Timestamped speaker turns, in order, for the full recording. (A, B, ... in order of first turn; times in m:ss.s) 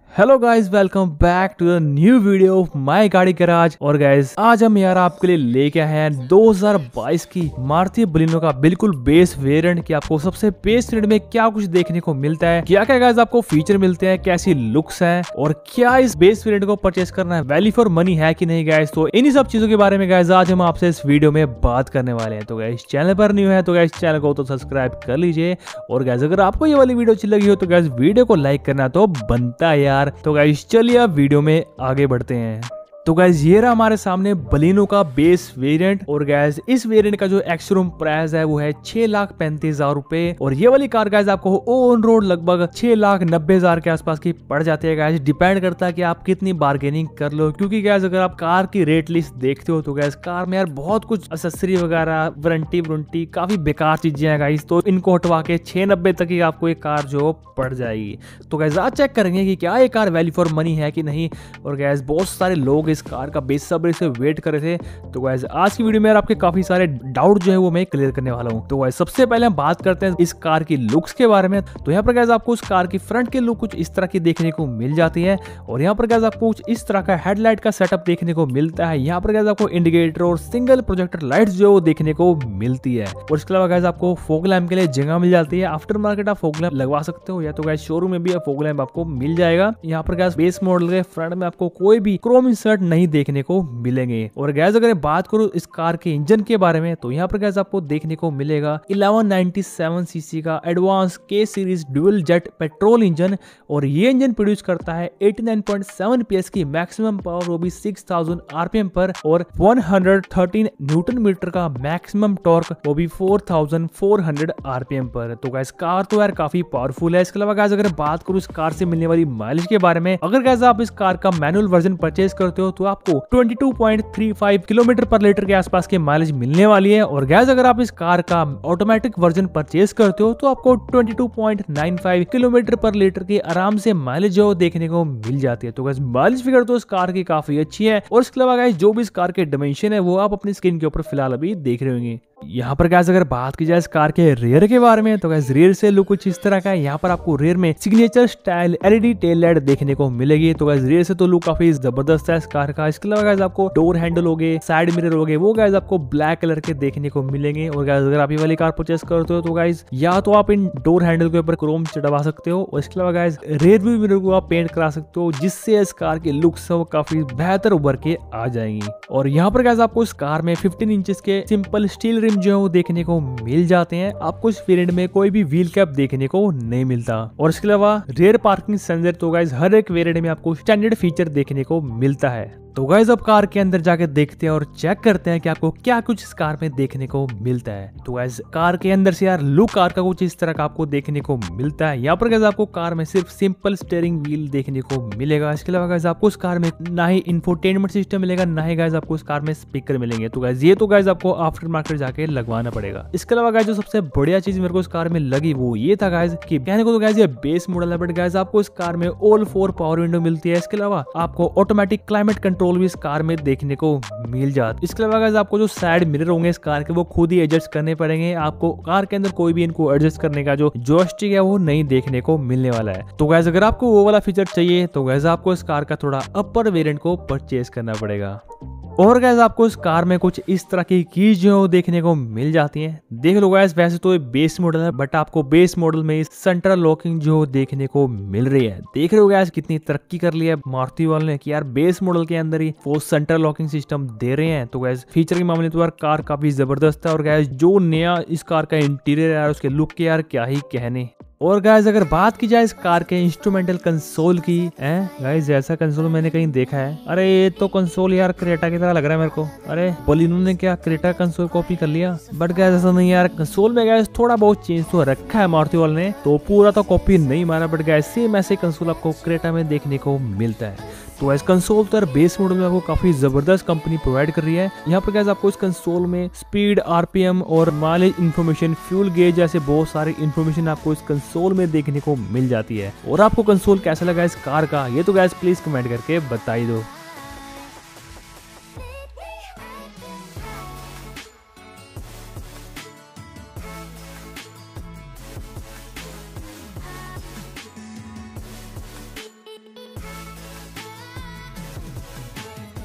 0:00.1-3:48.4 A
3:49.0-4:46.9 A